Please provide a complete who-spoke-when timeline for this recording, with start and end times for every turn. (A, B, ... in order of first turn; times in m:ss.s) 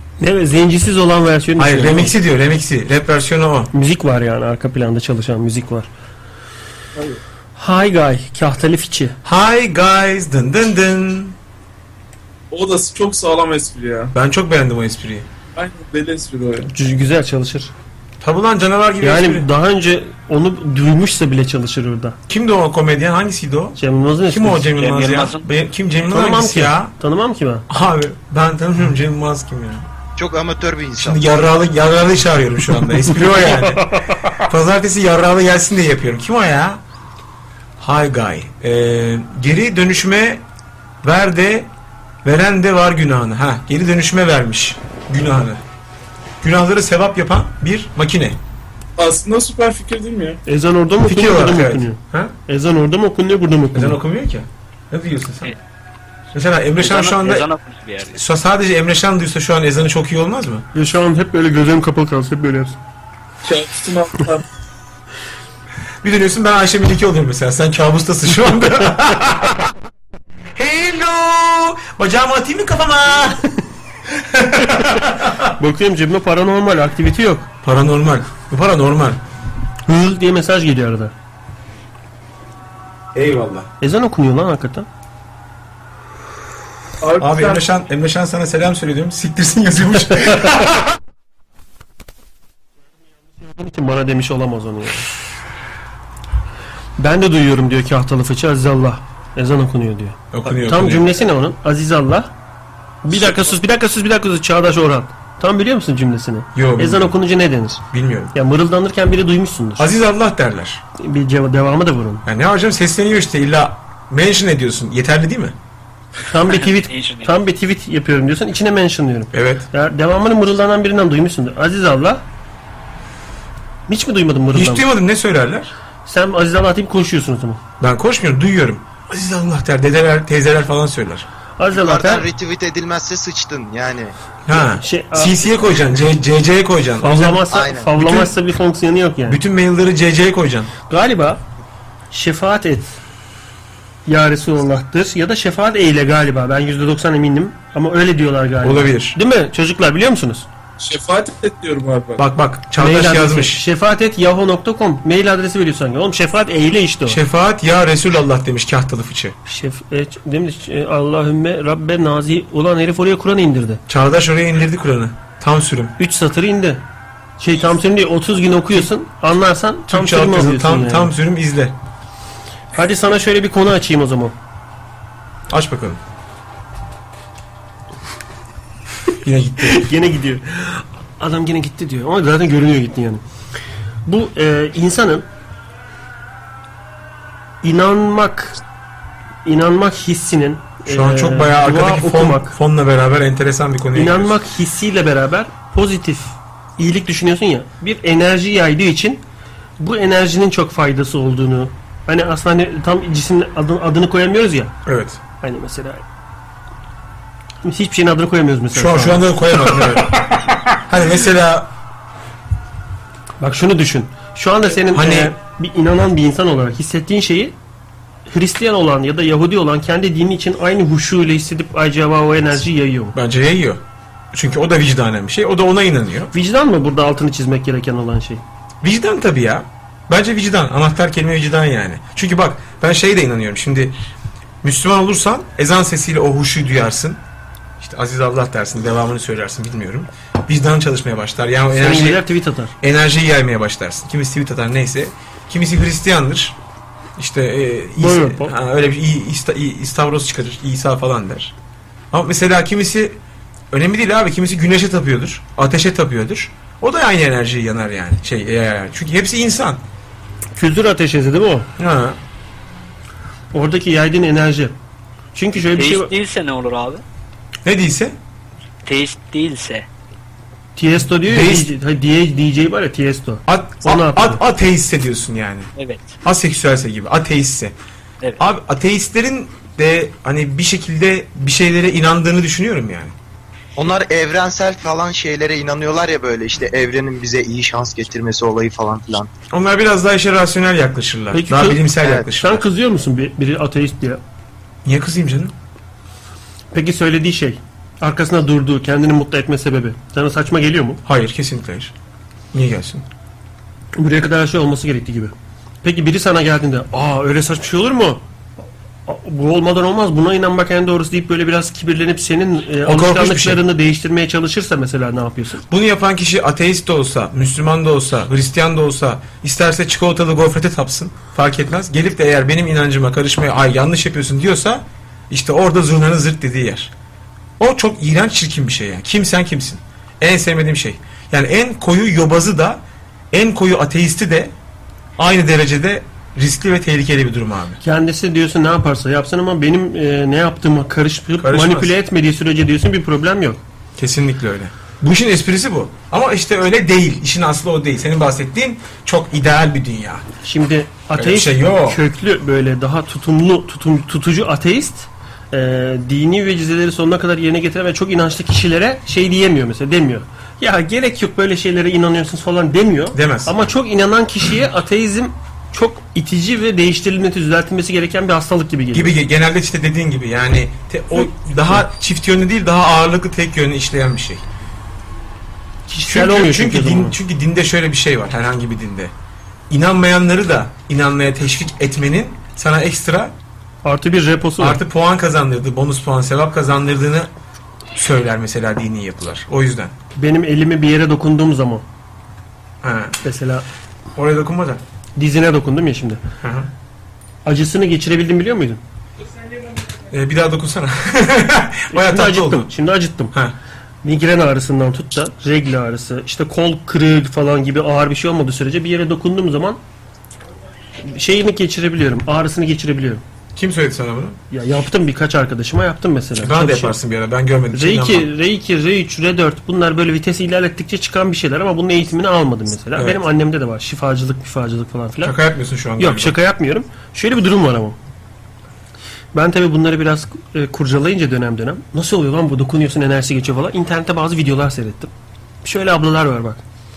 0:00.2-0:02.2 A
0:01.6-0:03.7 B
0:03.7-0:05.9 A
0:07.6-0:09.2 A
0:09.2-0:11.4 B
0:12.5-0:14.1 C
0:14.1-0:15.3 B
0:15.6-0:16.7 C
0:16.7-0:17.7 A
0:18.2-0:19.5 B
0:19.0-0:22.2 A
0:22.3-0:26.9 B
0:23.8-0:24.7 A
0:24.8-0:25.5 D
0:26.1-0:27.7 A
0:27.7-0:29.9 B
0:30.2-0:31.2 E
0:31.0-0:36.8 B
0:33.2-0:34.3 A
0:37.8-0:40.4 B
0:41.0-0:41.7 B
0:42.2-0:45.6 B
0:46.4-0:48.4 B
0:49.0-0:50.4 C
0:50.5-0:54.0 A
0:51.0-0:52.4 B
0:53.7-0:55.6 B
0:56.3-0:57.5 B
0:56.8-0:58.2 D
0:58.1-1:00.6 B
1:00.7-1:02.8 A
1:03.4-1:04.4 C
1:06.0-1:09.7 B
1:10.6-1:13.5 B
1:14.1-1:15.5 B
1:15.6-1:17.5 A
1:17.6-1:19.2 B
1:19.9-1:21.1 A
1:23.1-1:23.7 B
1:23.8-1:24.9 A
1:27.0-1:27.7 C
1:27.2-1:30.9 B
1:33.4-1:35.2 A
1:37.0-1:42.3 A
1:40.3-1:41.1 B
1:43.0-1:47.8 A
1:46.6-1:47.2 B
1:47.9-1:48.3 B
1:48.3-1:49.9 A
1:49.8-1:50.8 B
1:51.0-1:52.2 A
1:52.2-1:55.6 B
1:56.3-2:02.2 A
1:56.5-1:57.3 D
1:59.3-1:59.7 B
2:03.9-2:04.9 A
2:04.5-2:05.7 B
2:06.0-2:07.6 A
2:07.8-2:11.3 B
2:11.6-2:12.3 A
2:11.7-2:14.1 E
2:14.5-2:18.3 B
2:14.5-2:15.4 A
2:17.0-2:19.4 A
2:17.5-2:17.9 E
2:19.3-2:20.7 B
2:20.9-2:21.4 A
2:22.1-2:23.0 A
2:24.1-2:30.5 A
2:28.6-2:29.2 B
2:30.8-2:32.2 C
2:32.2-2:33.6 B
2:32.8-2:37.2 A
2:37.1-2:39.4 B
2:39.5-2:43.8 A
2:43.9-2:45.9 B
2:46.0-2:46.8 A
2:47.4-2:51.1 A
2:49.9-2:51.8 B
2:52.7-2:54.4 A
2:55.5-2:56.0 B
2:59.2-2:59.9 B
2:59.6-3:03.2 A
3:04.1-3:05.3 A
3:07.6-3:08.6 A
3:09.4-3:12.6 A
3:10.9-3:14.4 B
3:14.0-3:19.2 A
3:19.8-3:24.7 A
3:24.8-3:25.2 B
3:25.4-3:26.0 A
3:27.6-3:29.3 A
3:28.7-3:31.7 B
3:33.4-3:37.6 A
3:34.9-3:35.3 B
3:38.3-3:43.2 A
3:43.1-3:46.3 B
3:46.3-3:48.4 A
3:48.8-3:54.0 B
3:54.6-3:57.2 B
3:57.8-4:02.2 B
4:01.7-4:02.7 A
4:02.8-4:06.6 B
4:07.2-4:11.5 B
4:08.0-4:08.5 A
4:12.1-4:13.2 B
4:13.7-4:19.8 B
4:20.6-4:21.7 A
4:21.8-4:22.2 B
4:23.5-4:24.8 A
4:25.4-4:26.1 A
4:25.6-4:27.0 D
4:27.6-4:28.2 B
4:28.8-4:29.9 D
4:30.8-4:34.4 A
4:31.2-4:31.7 B
4:33.5-4:35.7 B
4:35.8-4:36.2 D
4:36.2-4:37.8 B
4:38.4-4:43.2 B
4:43.8-4:49.3 E
4:49.5-4:52.6 B
4:51.3-4:54.2 A
4:54.8-4:55.5 B
4:56.7-5:01.0 A
5:01.0-5:01.9 B
5:02.5-5:03.0 B
5:04.0-5:08.2 A
5:09.1-5:15.6 A
5:12.8-5:13.6 B
5:15.7-5:26.9 B
5:27.6-5:34.5 B
5:35.2-5:37.8 B
5:37.8-5:43.6 A
5:41.4-5:41.9 B
5:44.0-5:50.2 B
5:50.4-6:09.2 A
5:51.2-5:52.0 B
6:03.1-6:03.5 B
6:08.9-6:14.4 B
6:15.9-6:17.2 A
6:16.1-6:19.1 B
6:19.7-6:23.4 B
6:23.8-6:24.8 A
6:24.6-6:27.3 B
6:28.0-6:29.9 B
6:30.2-6:31.8 A
6:32.8-6:33.2 B
6:33.2-6:33.6 A
6:34.2-6:34.8 B
6:35.2-6:36.2 A
6:36.4-6:36.7 B
6:37.4-6:38.8 A
6:40.1-6:42.7 B
6:41.9-6:43.3 A
6:44.0-6:49.8 A
6:51.0-6:53.2 A
6:53.5-6:54.4 B
6:54.5-6:57.0 A
6:56.4-6:58.3 B
6:57.7-7:05.4 A
7:03.0-7:03.2 B
7:05.2-7:06.4 B
7:06.0-7:08.0 A
7:09.3-7:15.1 A
7:15.6-7:16.6 A